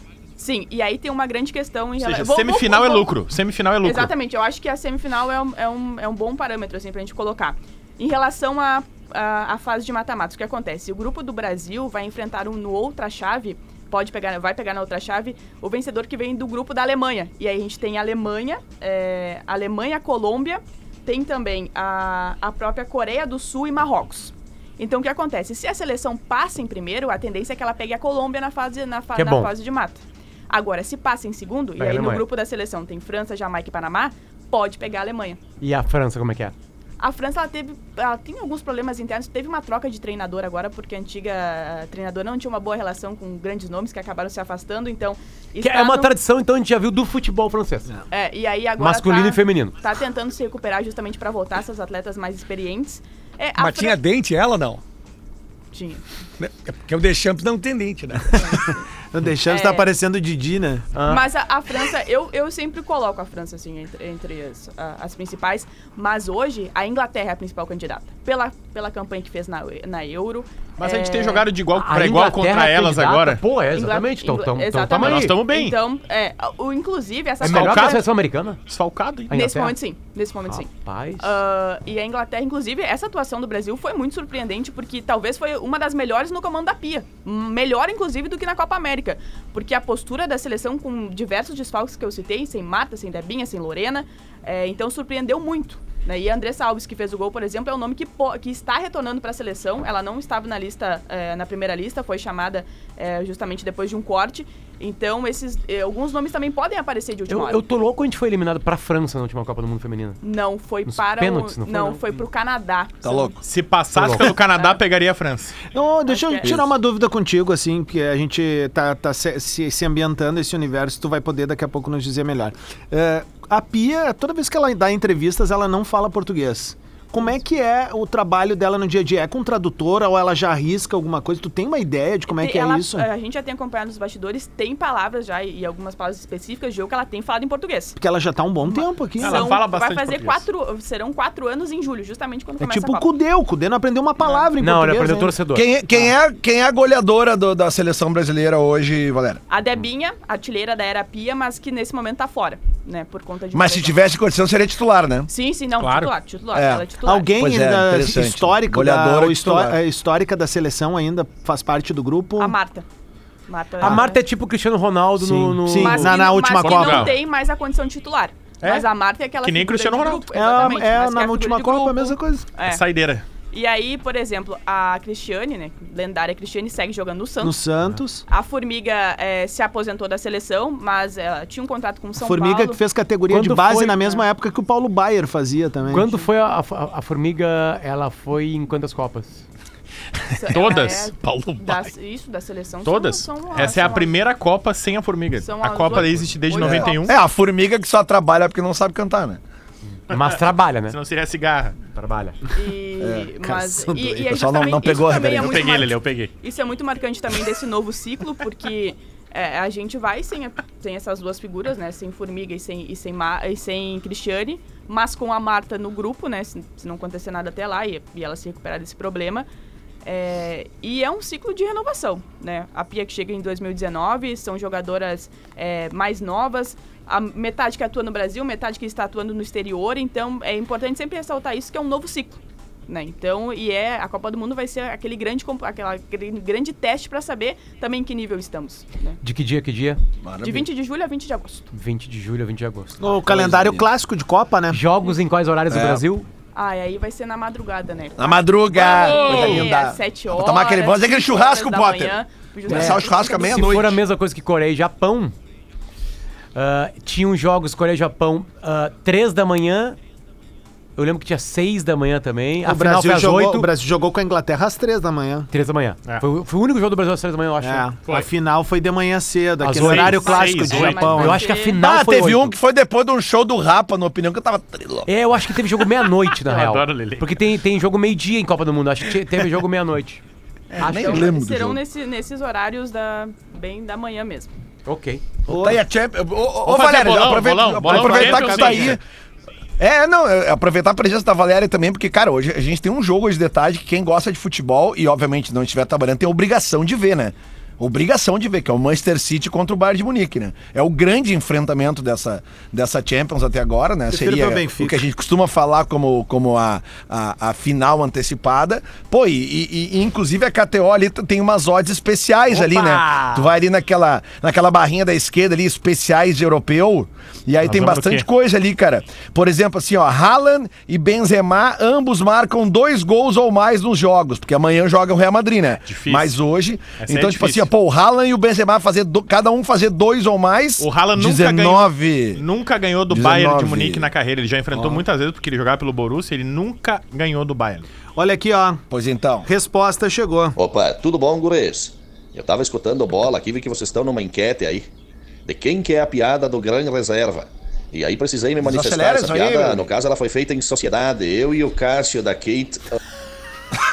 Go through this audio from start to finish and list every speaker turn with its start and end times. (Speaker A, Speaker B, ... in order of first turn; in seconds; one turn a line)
Speaker A: 0.4-3.1
Speaker B: 2.0-4.1
Speaker A: 3.8-35.4
Speaker C: 29.1-29.5
Speaker C: 31.8-32.2
Speaker C: 35.6-36.5
Speaker A: 37.0-46.1
Speaker C: 45.6-47.9
Speaker A: 48.1-54.0
Speaker C: 48.8-49.8
Speaker D: 53.6-54.8
Speaker A: 55.7-56.0
Speaker D: 56.4-58.7
Speaker A: 58.3-58.9
Speaker E: 59.1-60.9
Speaker A: 59.5-59.9
Speaker C: 61.0-61.2
Speaker A: 61.0-71.5
Speaker B: 70.8-73.4
Speaker C: 71.8-75.3
Speaker A: 73.7-78.0
Speaker B: 74.9-75.8
Speaker B: 77.4-78.0
Speaker C: 77.4-78.6
Speaker B: 78.7-79.4
Speaker C: 79.3-79.8
Speaker A: 79.3-107.6
Speaker C: 80.5-81.3
Speaker C: 107.3-110.2
Speaker A: 110.2-113.4
Speaker C: 110.9-112.0
Speaker F: 113.0-113.4
Speaker B: 113.4-115.6
Speaker C: 113.9-114.3
Speaker E: 115.7-133.1
Speaker A: 116.1-116.5
Speaker F: 116.4-116.7
Speaker A: 132.3-138.0
Speaker E: 138.0-139.5
Speaker A: 138.7-143.1
Speaker B: 139.2-140.5
Speaker E: 142.6-145.4
Speaker A: 144.2-144.5
Speaker C: 144.6-145.7
Speaker F: 145.5-149.4
Speaker A: 149.5-154.0
Speaker F: 153.5-155.3
Speaker A: 155.3-157.4
Speaker B: 155.8-156.1
Speaker F: 156.5-159.8
Speaker E: 157.1-162.6
Speaker A: 162.4-162.8
Speaker A: 163.5-164.2
Speaker C: 163.8-166.1
Speaker E: 165.2-167.1
Speaker A: 165.7-172.8
Speaker B: 166.6-167.2
Speaker B: 168.6-168.9
Speaker B: 169.4-170.3
Speaker E: 170.3-172.5
Speaker B: 172.7-173.2
Speaker A: 173.5-177.6
Speaker E: 177.4-178.2
Speaker A: 178.3-182.8
Speaker E: 182.2-186.1
Speaker C: 183.3-184.2
Speaker C: 185.9-189.4
Speaker A: 190.3-194.2
Speaker B: 190.5-191.9
Speaker B: 192.8-197.1
Speaker A: 195.4-197.1
Speaker F: 196.7-199.4
Speaker C: 200.1-201.0
Speaker B: 200.9-201.9
Speaker C: 202.0-202.3
Speaker A: 202.6-219.5
Speaker F: 203.0-203.3
Speaker E: 203.4-204.3
Speaker F: 204.3-205.8
Speaker B: 205.4-206.3
Speaker A: 220.1-239.2
Speaker C: 239.2-240.0
Speaker F: 240.2-240.7
Speaker A: 240.4-241.7
Speaker C: 241.7-243.1
Speaker E: 243.0-244.8
Speaker F: 243.2-243.9
Speaker C: 244.7-246.3
Speaker F: 245.7-246.0
Speaker A: 246.6-253.8
Speaker F: 248.2-254.0
Speaker B: 248.8-249.7
Speaker C: 252.7-255.3
Speaker C: 256.6-260.0
Speaker C: 261.0-263.7
Speaker E: 262.6-265.5
Speaker C: 265.5-267.9
Speaker E: 267.6-271.4
Speaker C: 269.6-272.6
Speaker B: 269.8-271.2
Speaker A: 270.1-271.8
Speaker F: 271.8-275.1
Speaker C: 275.1-280.2
Speaker B: 276.4-277.4
Speaker A: 280.7-284.5
Speaker F: 280.9-281.8
Speaker C: 280.9-281.2
Speaker C: 284.9-285.3
Speaker E: 285.5-285.8
Speaker F: 285.5-289.0
Speaker B: 286.6-289.0
Speaker F: 289.8-332.4
Speaker E: 304.1-305.0
Speaker E: 312.5-313.4
Speaker B: 317.6-318.2
Speaker B: 325.9-326.4
Speaker B: 327.0-327.7
Speaker B: 330.8-337.9
Speaker F: 333.1-334.1
Speaker E: 338.2-338.8
Speaker F: 338.9-339.5
Speaker E: 339.5-340.6
Speaker G: 340.6-344.9
Speaker G: 345.4-352.8
Speaker F: 348.6-349.9